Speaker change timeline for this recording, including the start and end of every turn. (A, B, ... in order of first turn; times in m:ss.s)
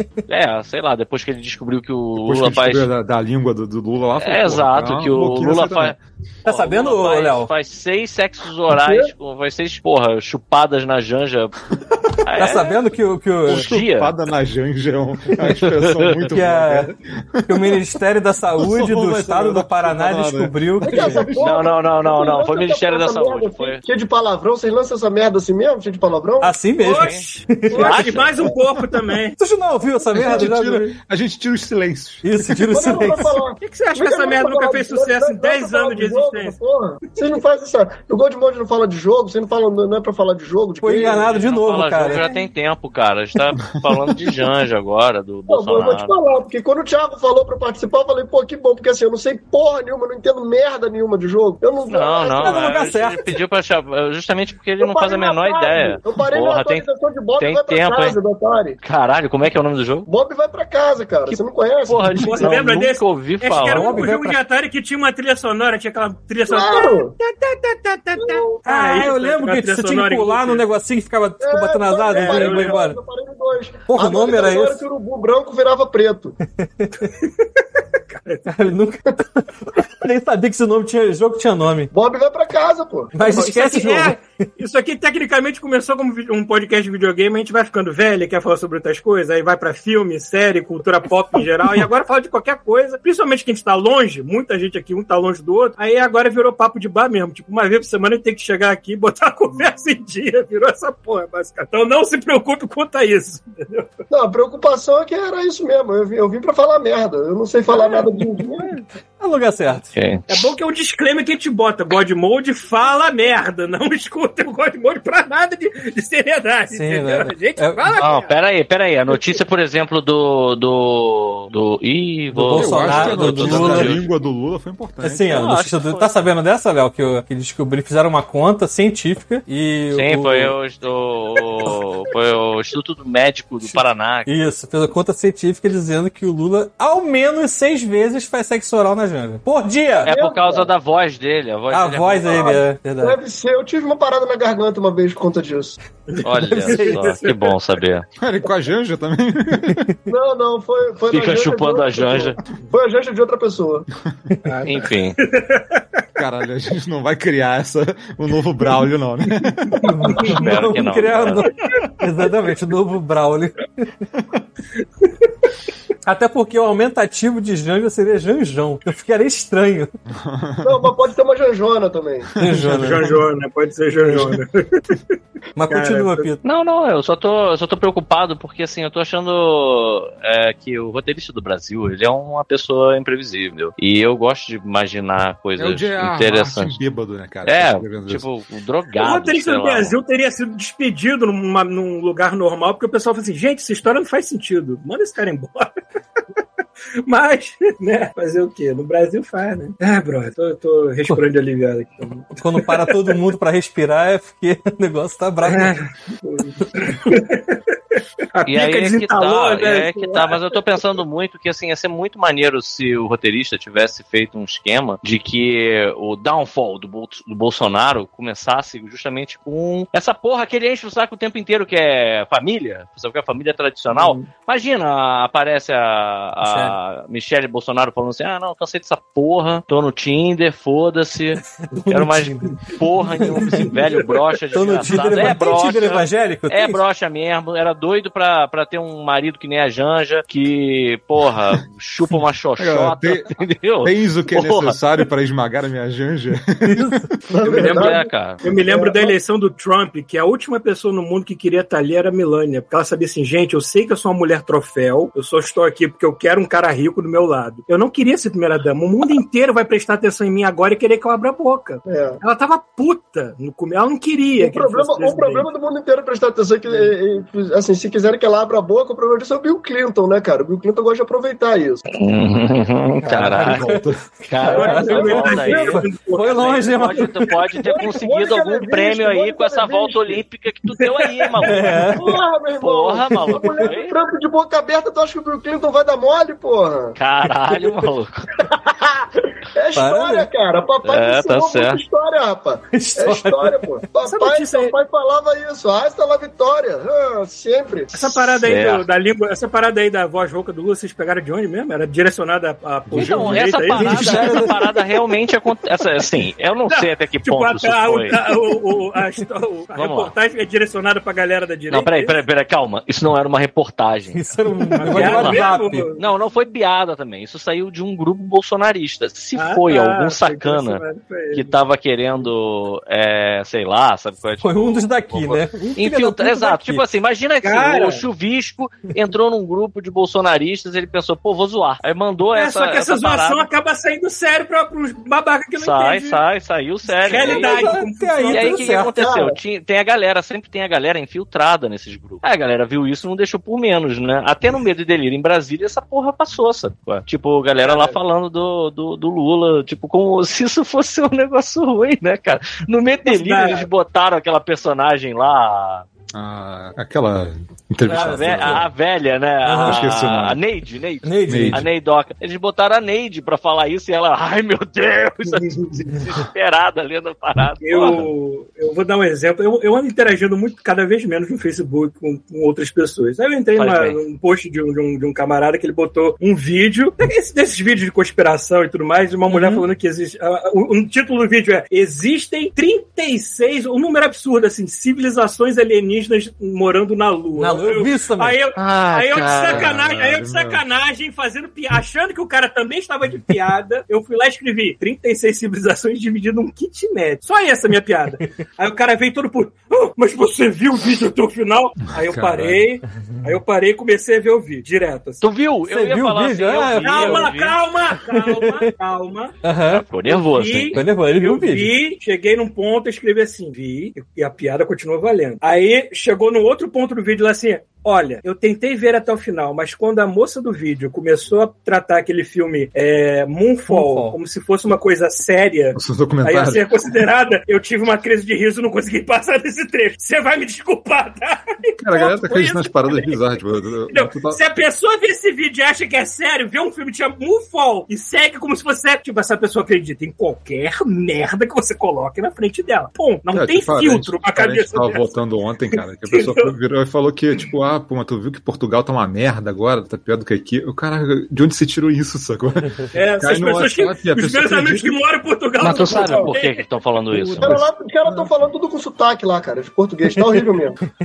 0:00.3-0:02.9 A
0:02.2-0:06.0 B
0:04.2-0:11.6 A
0:06.4-0:07.5 C
0:12.2-0:12.7 A
0:12.4-0:13.7 C
0:13.5-0:17.8 B
0:13.5-0:14.1 A
0:15.4-0:16.2 A
0:16.3-0:16.9 C
0:17.5-0:21.3 C
0:18.6-0:21.7 B
0:20.8-0:26.6 D
0:21.4-0:23.8 A
0:26.4-0:28.1 C
0:26.8-0:29.4 E
0:26.8-0:28.4 A
0:28.3-0:28.6 D
0:29.4-0:30.9 C
0:30.1-0:32.7 B
0:30.2-0:30.5 D
0:32.2-0:33.4 C
0:32.7-0:41.4 D
0:33.6-0:36.6 E
0:40.8-0:42.3 C
0:41.3-0:46.1 A
0:43.6-0:44.4 B
0:45.5-0:53.1 D
0:51.9-0:56.8 A
0:52.4-0:53.4 C
0:54.8-0:58.8 D
0:57.4-0:58.2 A
0:58.8-1:00.1 A
1:00.1-1:02.7 D
1:01.3-1:04.1 A
1:02.2-1:10.6 E
1:03.6-1:04.4 C
1:06.5-1:07.2 D
1:08.2-1:08.6 D
1:08.6-1:13.0 C
1:11.4-1:16.4 D
1:12.1-1:12.8 E
1:13.9-1:14.8 C
1:16.6-1:17.0 C
1:17.1-1:18.4 E
1:18.5-1:21.9 C
1:21.9-1:23.4 D
1:23.1-1:24.4 C
1:23.3-1:43.9 E
1:44.1-1:48.7 D
1:47.7-1:48.1 E
1:49.2-1:50.0 C
1:50.0-1:50.2 A
1:50.3-1:58.4 E
1:56.7-1:57.9 C
1:58.0-2:04.1 A
1:59.1-1:59.4 E
2:02.4-2:04.0 C
2:02.4-2:05.5 B
2:05.0-2:10.5 C
2:05.3-2:06.2 A
2:09.9-2:14.3 A
2:13.6-2:20.1 C
2:20.0-2:22.6 A
2:20.1-2:20.7 D
2:21.7-2:23.2 C
2:22.3-2:25.8 D
2:26.1-2:27.5 E
2:26.2-2:28.0 A
2:26.7-2:27.0 C
2:28.2-2:29.9 B
2:30.1-2:33.9 D
2:31.1-2:32.4 A
2:34.4-2:35.8 E
2:34.6-2:35.2 A
2:36.2-2:40.2 B
2:39.8-2:43.9 C
2:39.9-2:40.5 E
2:40.2-2:41.5 A
2:44.2-2:44.4 B
2:46.1-2:49.9 C
2:50.1-2:50.9 B
2:50.6-2:52.3 D
2:52.3-2:53.2 B
2:52.4-2:53.1 C
2:52.8-2:55.2 E
2:55.6-2:56.4 C
2:55.7-2:56.3 E
2:56.4-3:06.8 A
3:05.6-3:08.3 B
3:07.5-3:10.0 A
3:09.0-3:15.7 E
3:17.0-3:23.0 E
3:22.4-3:25.7 C
3:25.5-3:30.8 E
3:28.5-4:04.8 A
3:46.4-3:46.8 C
3:51.7-3:52.6 C
3:53.2-3:53.7 C
3:53.2-3:54.7 E
3:54.5-3:56.8 C
4:02.6-4:07.1 B
4:06.6-4:07.1 C
4:07.3-4:09.2 D
4:07.5-4:25.5 E
4:07.6-4:08.4 A
4:21.9-4:22.2 D
4:24.4-4:31.8 D
4:31.9-4:33.6 A
4:33.0-4:37.8 C
4:33.3-4:34.1 B
4:34.3-4:35.7 A
4:34.5-4:35.8 D
4:34.5-4:37.1 E
4:36.4-4:44.0 A
4:37.8-4:40.2 D
4:40.8-4:41.9 E
4:41.4-4:42.2 C
4:42.0-4:47.0 D
4:47.0-4:48.3 A
4:48.4-4:58.0 D
4:49.8-4:50.3 C
4:50.9-4:51.8 A
4:52.7-4:53.7 C
4:54.0-4:54.8 E
4:57.9-5:04.5 E
4:58.0-4:58.8 A
5:02.9-5:04.1 B
5:02.9-5:08.2 A
5:03.7-5:04.6 C
5:06.7-5:12.2 E
5:09.8-5:10.1 A
5:11.7-5:14.3 A
5:14.1-5:15.9 C
5:14.8-5:16.0 E
5:14.8-5:20.8 A
5:19.4-5:21.5 E
5:21.3-5:33.5 A
5:24.4-5:26.8 C
5:27.4-5:28.0 E
5:32.3-5:36.2 E
5:35.6-5:37.7 A
5:37.0-5:38.6 E
5:37.1-5:39.0 C
5:38.3-5:55.9 A
5:38.5-5:39.4 D
5:47.6-5:48.0 E
5:53.1-5:53.7 E
5:56.1-5:58.7 B
5:57.9-6:08.0 A
5:57.9-5:58.7 C
5:59.4-5:59.8 C
5:59.6-6:00.4 B
6:01.0-6:01.7 C
6:01.3-6:01.7 B
6:07.6-6:45.2 E
6:07.8-6:08.1 B
6:13.6-6:14.0 A
6:27.4-6:28.4 C
6:28.6-6:29.8 A
6:29.4-6:30.6 B
6:41.9-6:42.6 B
6:43.1-6:43.4 C
6:45.2-6:47.6 A
6:45.7-6:47.3 C
6:46.8-6:49.4 E
6:48.1-6:48.7 C
6:49.4-6:49.8 C
6:49.7-6:50.8 A
6:50.1-7:26.5 E
6:50.7-6:51.7 C
7:03.7-7:04.2 C
7:05.8-7:06.7 B
7:11.8-7:14.4 B
7:23.3-7:35.0 B
7:32.9-7:36.6 E
7:35.6-7:37.6 A
7:35.7-7:36.3 D
7:37.1-7:38.3 B
7:37.4-7:40.8 D
7:40.1-7:40.4 C